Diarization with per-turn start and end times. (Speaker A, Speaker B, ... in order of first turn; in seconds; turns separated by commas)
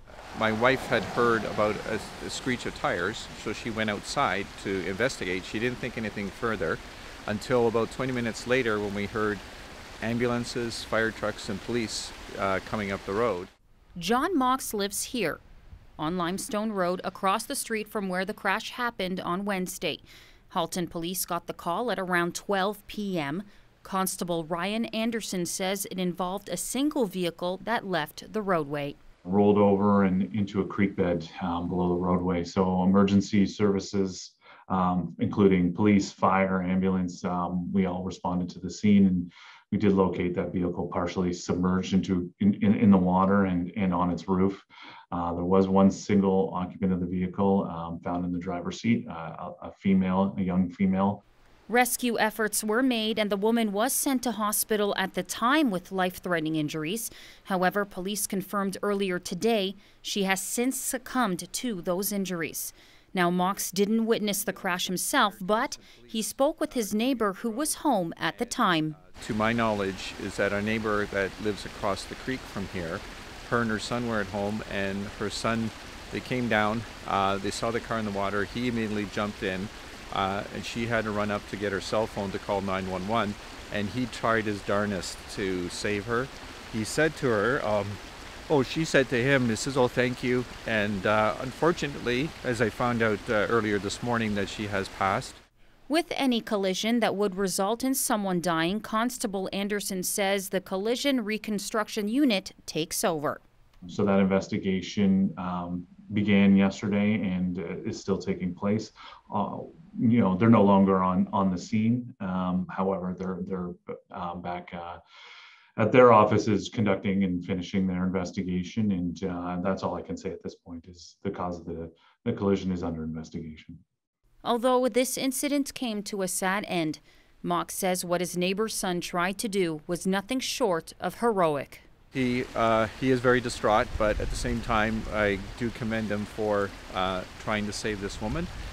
Speaker A: 0.3-9.4, Speaker A: 10.0-13.5, Speaker B: 13.9-15.4, Speaker B: 16.0-29.0, Speaker C: 29.2-51.2, Speaker B: 51.7-69.0, Speaker A: 64.2-95.4, Speaker B: 95.9-103.4, Speaker C: 103.8-115.0, Speaker C: 115.8-123.8, Speaker B: 124.4-131.8, Speaker A: 132.1-138.5